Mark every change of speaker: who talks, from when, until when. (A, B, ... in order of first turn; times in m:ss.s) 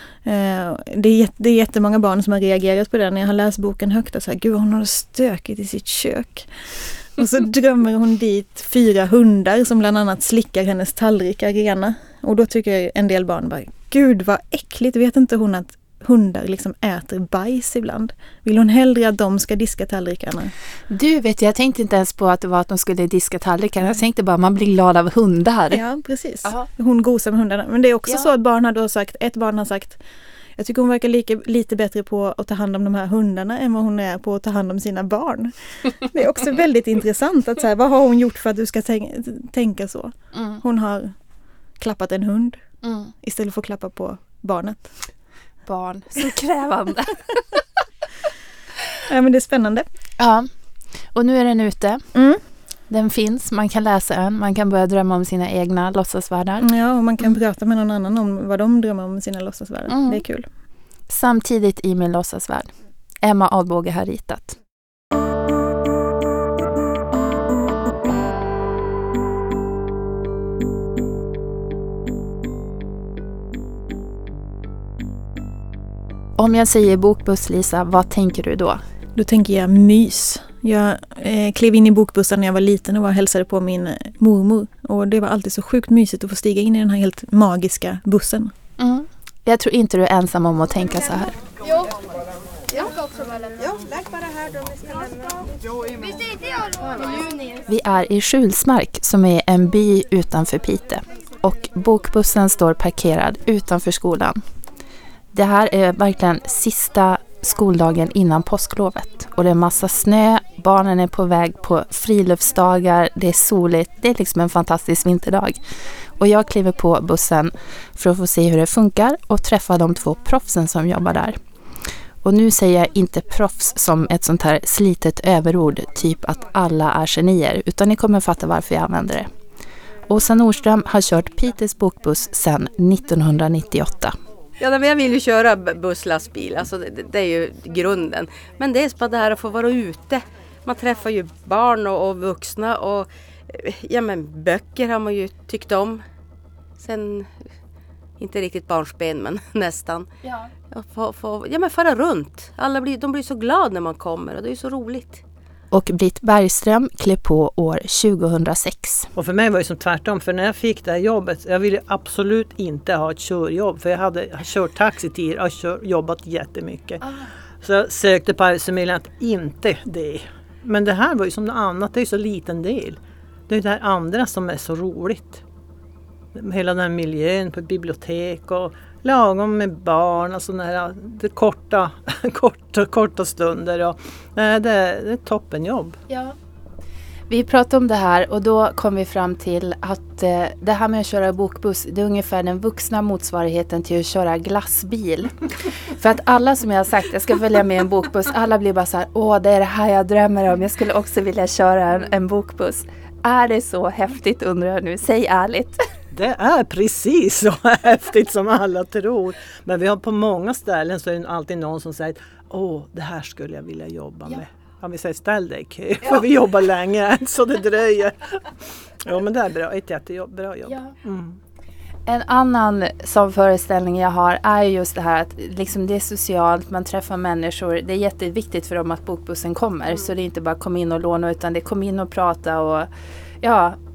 0:00.2-0:06.5 A
0:07.2-0:20.5 A
0:20.9-0:25.8 B
0:25.7-0:30.0 A
0:30.6-0:41.1 A
0:40.3-0:40.6 B
0:41.8-0:42.6 A
0:42.8-0:43.1 B
0:43.2-0:44.9 A
0:45.7-0:47.6 B
0:49.1-0:49.9 A
0:50.2-0:50.5 B
0:51.1-0:52.0 B
0:52.1-0:52.4 A
0:52.9-0:56.7 B
0:56.6-1:00.5 A
0:59.9-1:00.2 B
1:01.1-1:04.6 B
1:16.4-1:18.8 B
1:19.2-1:28.5 A
1:28.8-1:31.4 B
1:31.6-1:31.9 C
1:32.7-1:35.4 C
1:36.0-1:37.6 C
1:37.7-1:44.4 B
1:45.3-1:55.6 B
1:56.2-2:01.4 B
2:02.2-2:09.3 B
2:10.1-2:14.2 B
2:14.6-2:26.0 D
2:26.8-2:27.3 D
2:28.2-2:30.1 D
2:30.2-2:30.5 B
2:30.7-2:35.2 D
2:35.7-2:39.1 B
2:39.2-2:47.0 E
2:47.6-2:55.4 E
2:56.4-3:06.0 E
3:06.1-3:06.4 B
3:07.3-3:25.8 B
3:26.1-3:41.4 E
3:40.7-3:40.9 B
3:42.1-3:52.9 B
3:53.4-3:53.8 B